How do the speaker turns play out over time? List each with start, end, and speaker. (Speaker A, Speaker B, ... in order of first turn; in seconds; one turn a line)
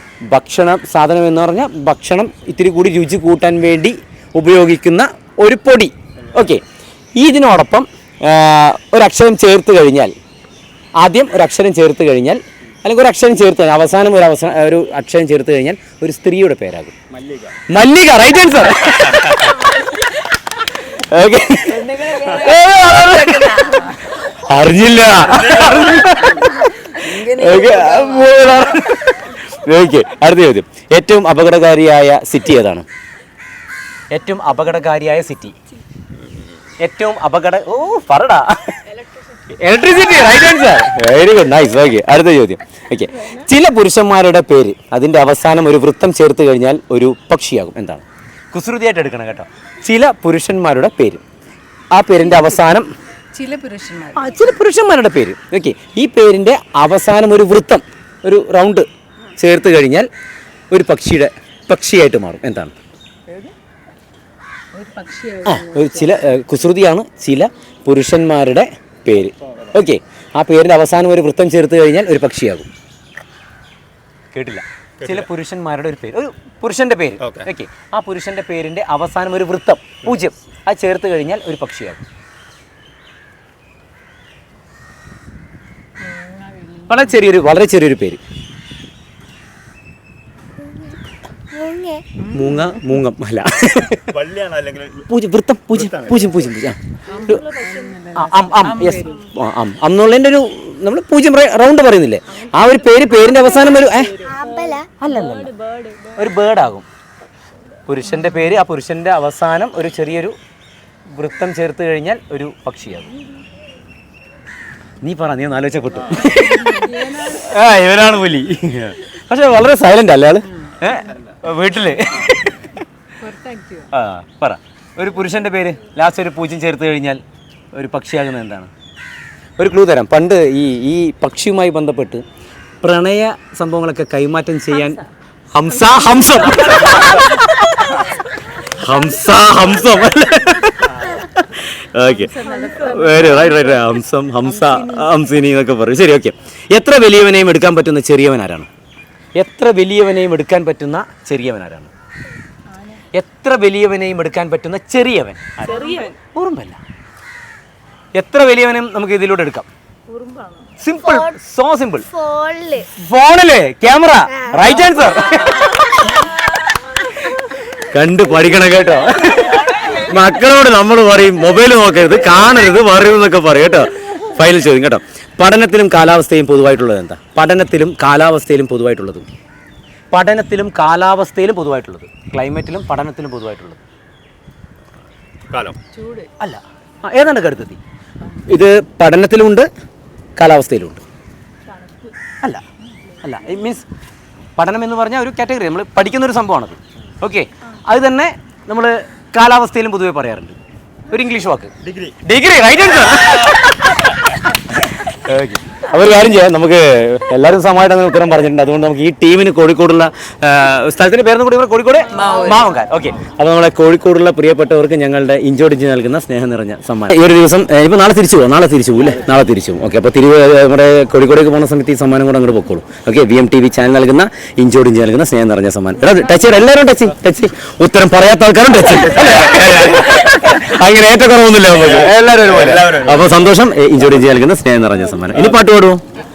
Speaker A: 0.3-6.6
Speaker A: 7.2-10.1
Speaker A: 11.0-17.0
Speaker A: 17.7-19.7
Speaker A: 20.9-32.9
Speaker B: 21.7-24.1
Speaker B: 27.0-28.4
Speaker A: 34.1-35.5
Speaker A: 36.8-38.8
Speaker A: 39.5-51.2
Speaker A: 51.9-52.9
Speaker B: 53.3-54.4
Speaker A: 54.1-60.1
Speaker A: 60.7-62.7
Speaker B: 64.7-66.1
Speaker A: 65.4-72.7
Speaker A: 74.3-82.0
Speaker C: 75.0-75.3
Speaker B: 86.1-86.9
Speaker A: 86.9-88.2
Speaker D: 91.5-92.0
Speaker A: 92.2-94.1
Speaker C: 94.1-95.0
Speaker A: 95.0-97.4
Speaker B: 97.1-99.2
Speaker A: 98.1-104.1
Speaker B: 102.9-103.4
Speaker D: 104.2-104.9
Speaker B: 104.2-104.5
Speaker A: 105.0-105.5
Speaker B: 105.2-106.0
Speaker A: 106.1-106.9
Speaker A: 107.8-110.3
Speaker A: 111.1-113.1
Speaker A: 115.0-122.8
Speaker B: 116.7-117.2
Speaker B: 123.2-123.9
Speaker A: 123.9-127.2
Speaker A: 127.7-128.7
Speaker A: 129.6-132.2
Speaker A: 132.8-135.0
Speaker A: 135.5-138.1
Speaker B: 136.5-136.9
Speaker A: 138.6-148.7
Speaker B: 142.1-143.5
Speaker B: 144.6-145.1
Speaker A: 149.3-151.9
Speaker A: 153.1-156.8
Speaker B: 155.6-156.1
Speaker A: 158.1-159.7
Speaker B: 160.1-160.7
Speaker A: 160.8-162.1
Speaker D: 161.0-161.3
Speaker D: 162.1-162.9
Speaker A: 162.9-166.3
Speaker A: 167.8-179.3
Speaker A: 180.1-183.8
Speaker C: 185.5-185.8
Speaker B: 185.9-186.3
Speaker A: 186.4-187.8
Speaker A: 188.4-189.7
Speaker A: 190.4-191.0
Speaker A: 193.2-193.8
Speaker A: 194.6-200.6
Speaker A: 201.1-236.0
Speaker B: 212.1-212.7
Speaker C: 229.6-230.0
Speaker C: 231.8-233.3